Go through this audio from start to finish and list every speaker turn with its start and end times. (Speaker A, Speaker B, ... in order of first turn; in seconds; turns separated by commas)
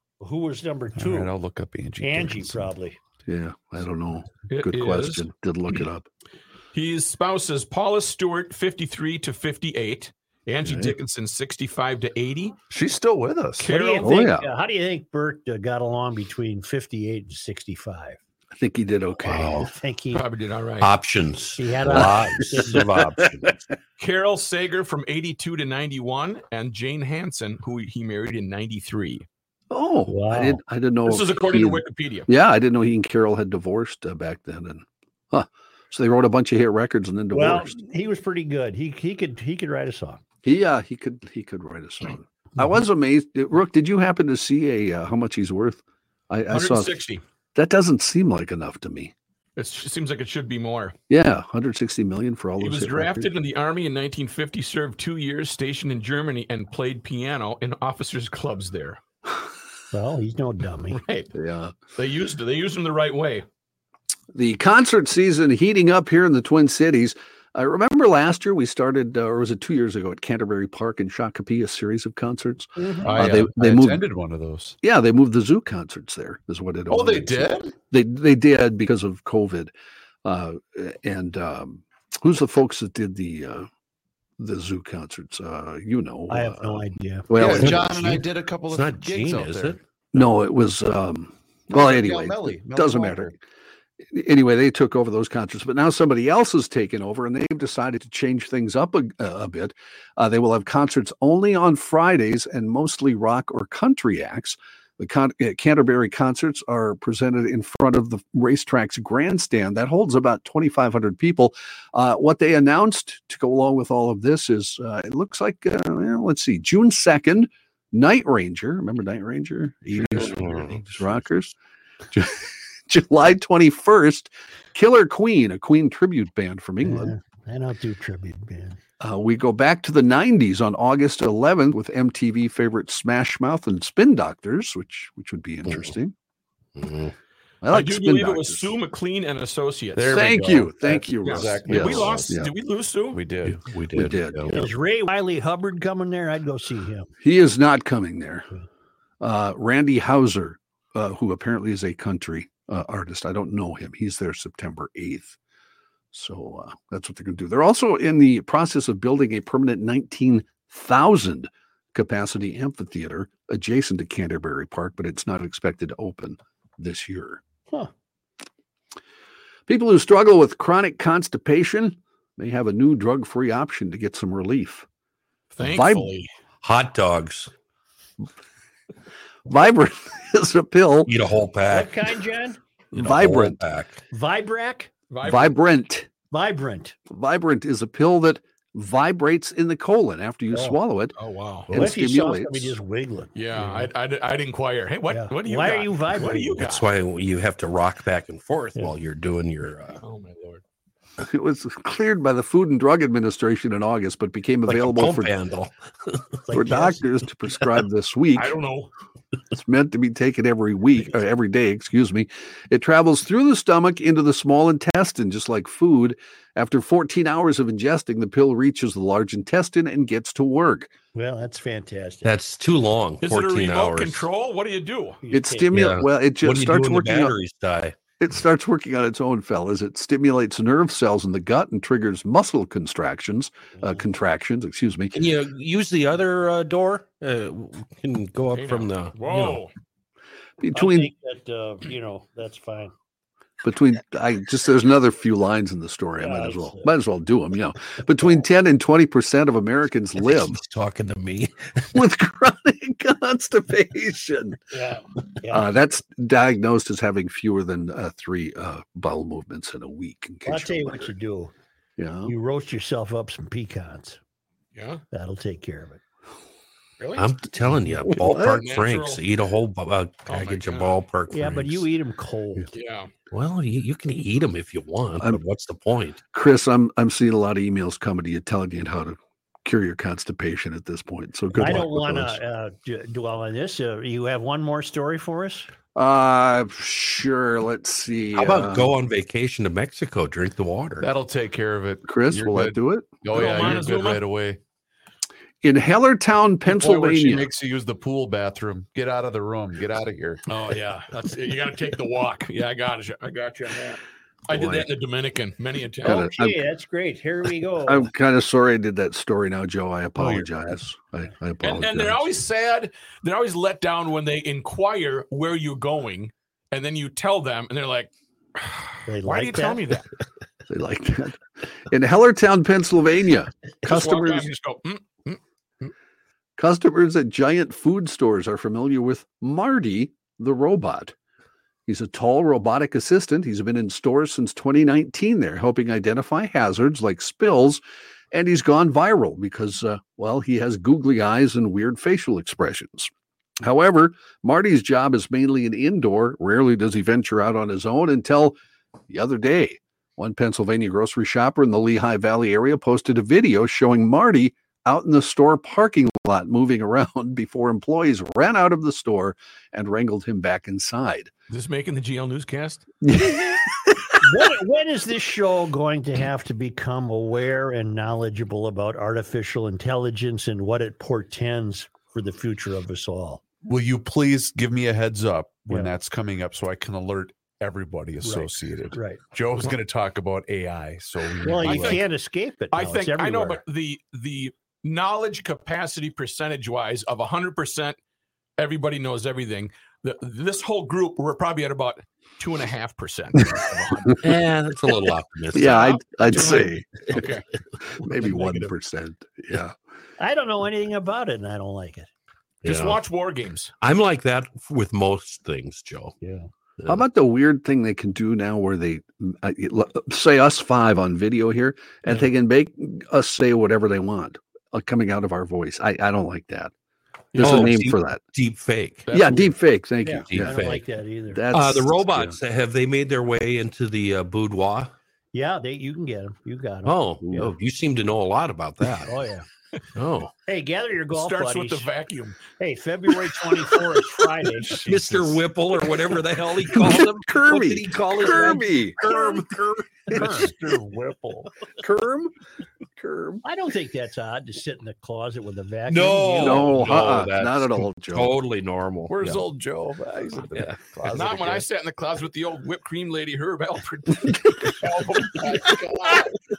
Speaker A: 0.2-1.3, Speaker B: 0.9-2.7, Speaker A: 2.0-3.0, Speaker C: 3.3-6.1, Speaker D: 4.5-5.2, Speaker D: 6.7-12.6, Speaker C: 10.6-10.9, Speaker B: 12.7-13.6, Speaker D: 13.6-14.2, Speaker A: 13.7-18.2, Speaker C: 14.0-14.5, Speaker C: 18.5-19.7, Speaker E: 19.2-19.7, Speaker A: 19.6-20.2, Speaker D: 20.1-20.9, Speaker E: 20.8-23.5, Speaker A: 21.6-23.1, Speaker C: 21.9-23.5, Speaker D: 24.0-29.2, Speaker C: 29.7-37.8, Speaker A: 30.1-30.6, Speaker D: 31.0-32.3, Speaker A: 37.3-40.2, Speaker C: 40.4-47.0, Speaker D: 46.5-47.2, Speaker C: 47.5-49.1, Speaker D: 49.6-50.9, Speaker C: 51.1-53.3, Speaker D: 52.6-59.0, Speaker A: 59.9-61.0, Speaker D: 60.9-61.3, Speaker C: 61.3-61.7, Speaker D: 61.9-63.4, Speaker C: 64.3-74.0, Speaker A: 72.8-73.1, Speaker B: 73.0-74.8, Speaker C: 74.8-79.7, Speaker B: 76.9-77.7, Speaker C: 80.2-83.7, Speaker C: 84.4-88.2, Speaker A: 86.3-87.3, Speaker B: 87.3-89.8, Speaker E: 87.5-89.8, Speaker C: 90.1-93.3, Speaker B: 91.7-93.3, Speaker C: 94.1-121.5, Speaker E: 119.9-121.2, Speaker C: 122.1-127.1, Speaker A: 126.8-128.8, Speaker C: 129.0-136.1, Speaker E: 135.7-135.9, Speaker E: 136.8-137.1, Speaker C: 137.6-138.7, Speaker D: 137.7-140.2, Speaker B: 139.9-142.3, Speaker C: 140.1-142.5, Speaker D: 141.2-143.2, Speaker B: 143.1-143.7, Speaker E: 143.4-144.6, Speaker C: 143.9-144.7, Speaker A: 144.5-147.1, Speaker C: 147.2-148.5, Speaker C: 149.2-155.4, Speaker C: 156.1-167.4, Speaker C: 169.7-174.8, Speaker D: 175.5-176.3, Speaker C: 175.6-176.1, Speaker E: 176.6-177.5, Speaker C: 179.4-181.1, Speaker E: 181.1-182.1, Speaker A: 181.7-182.6, Speaker C: 182.9-183.6, Speaker E: 182.9-184.0, Speaker A: 184.1-184.9, Speaker D: 185.1-185.5, Speaker C: 185.2-186.1, Speaker A: 186.3-186.9, Speaker C: 187.1-191.1, Speaker A: 190.5-190.8, Speaker D: 191.2-191.7, Speaker C: 191.7-192.8, Speaker A: 191.7-193.9, Speaker D: 193.3-196.9, Speaker A: 195.1-196.6, Speaker E: 196.6-200.0, Speaker D: 200.0-200.6, Speaker C: 201.2-205.3, Speaker E: 204.7-206.2, Speaker A: 206.5-207.0, Speaker C: 206.5-208.6, Speaker D: 208.3-208.9, Speaker C: 209.5-220.9, Speaker A: 221.1-222.3, Speaker E: 222.2-224.2, Speaker D: 223.2-225.2, Speaker A: 225.2-225.7, Speaker C: 225.3-227.3, Speaker E: 225.7-227.9, Speaker C: 228.2-235.1, Speaker A: 233.8-234.0, Speaker E: 235.1-239.6, Speaker D: 238.5-239.7, Speaker C: 240.6-241.1, Speaker A: 240.7-242.9, Speaker C: 243.6-250.6, Speaker A: 246.2-246.9, Speaker E: 250.2-251.9, Speaker C: 251.9-254.6, Speaker A: 254.7-255.7, Speaker C: 255.5-261.1, Speaker A: 260.4-261.5, Speaker C: 262.0-262.3, Speaker A: 262.2-264.2, Speaker D: 264.7-265.0, Speaker A: 265.1-266.0, Speaker D: 267.0-267.3, Speaker E: 267.1-271.9, Speaker C: 268.1-268.6, Speaker D: 268.1-269.2, Speaker D: 270.2-270.9, Speaker A: 271.3-272.7, Speaker D: 272.7-273.1, Speaker E: 273.3-276.2, Speaker C: 276.3-282.4, Speaker A: 281.5-285.7, Speaker C: 285.9-288.9, Speaker E: 288.3-291.1, Speaker B: 291.0-294.6, Speaker C: 292.0-293.3, Speaker D: 293.3-294.2, Speaker C: 295.6-297.5, Speaker B: 296.6-300.4, Speaker D: 300.5-306.3, Speaker E: 304.5-304.8, Speaker C: 306.0-306.6, Speaker A: 306.0-308.1, Speaker C: 307.8-312.2, Speaker B: 310.2-310.6, Speaker D: 311.6-320.1, Speaker A: 319.1-319.8, Speaker C: 320.7-324.5, Speaker D: 323.8-325.9, Speaker C: 326.6-331.1, Speaker C: 331.9-348.6, Speaker C: 349.1-361.3, Speaker D: 361.5-362.9, Speaker C: 363.0-364.1, Speaker A: 364.2-373.4, Speaker B: 373.6-382.0, Speaker A: 378.2-379.2, Speaker D: 381.4-382.0, Speaker A: 381.4-383.6, Speaker D: 382.7-387.9, Speaker D: 388.6-394.2, Speaker C: 393.5-394.1, Speaker E: 394.2-396.7, Speaker C: 395.5-397.3, Speaker D: 396.2-397.4, Speaker C: 398.0-399.7, Speaker D: 398.1-398.7, Speaker A: 400.2-402.1, Speaker E: 402.6-403.0, Speaker D: 402.6-403.7, Speaker E: 403.8-406.1, Speaker A: 406.2-406.5, Speaker C: 406.9-416.7, Speaker D: 417.3-417.7, Speaker C: 417.3-418.2, Speaker E: 417.4-419.1, Speaker D: 419.1-419.5, Speaker C: 419.1-420.8, Speaker A: 420.0-421.4, Speaker E: 420.3-420.8, Speaker C: 421.3-422.4, Speaker E: 421.5-424.9, Speaker A: 425.3-427.5, Speaker E: 426.8-429.1, Speaker A: 429.1-429.5, Speaker E: 429.9-430.3, Speaker A: 430.5-431.9, Speaker D: 431.1-432.4, Speaker A: 432.6-434.8, Speaker B: 434.6-435.4, Speaker E: 434.8-440.5, Speaker C: 436.7-439.0, Speaker B: 440.1-441.5, Speaker A: 440.1-440.5, Speaker C: 441.8-442.3, Speaker C: 443.0-443.4, Speaker A: 443.4-446.7, Speaker E: 445.9-449.4, Speaker C: 446.3-448.3, Speaker B: 449.1-451.6, Speaker E: 450.5-450.8, Speaker D: 451.1-456.4, Speaker B: 455.7-456.1